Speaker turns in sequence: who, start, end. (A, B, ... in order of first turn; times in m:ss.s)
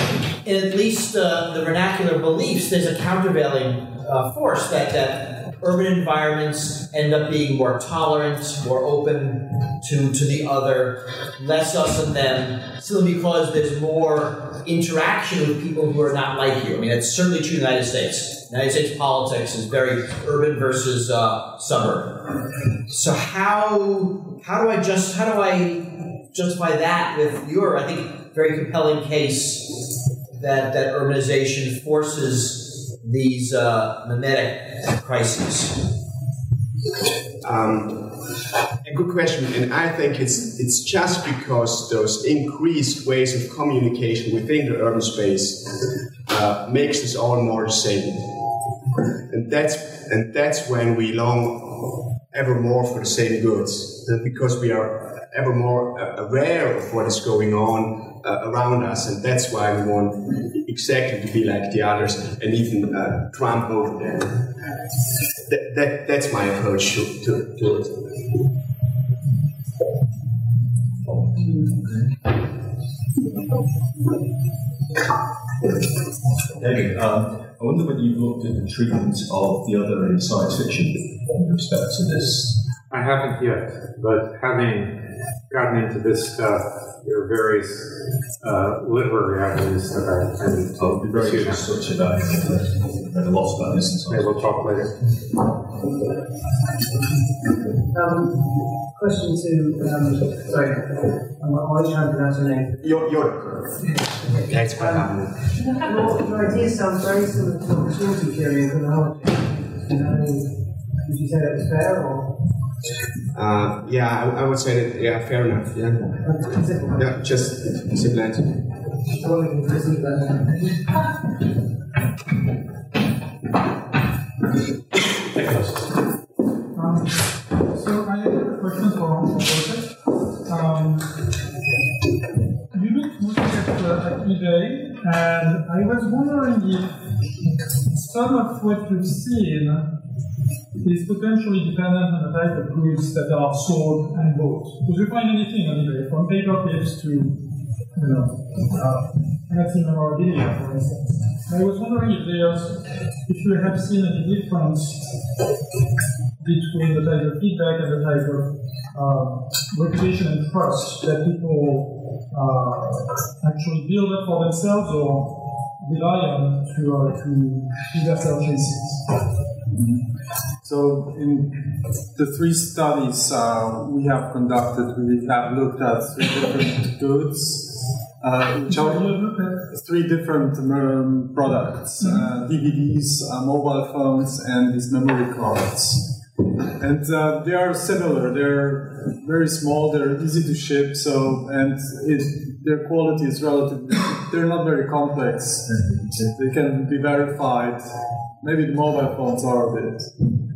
0:00.4-0:22.3 A
0:22.9-0:35.8 A
0:37.4-0:38.1 B
0:38.8-0:45.7 B
0:46.3-0:48.3 B
0:49.3-1:04.4 B
1:05.5-1:08.2 B
1:16.6-1:22.6 C
1:22.9-1:31.7 D
1:30.7-1:34.6 C
1:34.1-1:34.9 D
1:37.9-1:43.1 E
1:42.8-1:43.7 B
1:44.4-1:45.3 B
1:44.7-1:52.3 E
1:53.3-1:56.1 B
1:56.2-1:57.1 E
1:56.9-1:58.5 B
1:59.1-2:01.0 E
2:05.3-2:05.8 D
2:06.7-2:11.1 F
2:12.7-2:16.9 F
2:17.9-2:19.9 F
2:20.8-2:27.4 F
2:27.9-2:35.1 F
2:36.4-2:49.0 F
2:49.7-2:50.0 G
2:50.6-2:51.5 G
2:52.1-3:06.2 G
2:58.6-2:59.6 F
3:06.8-3:20.2 G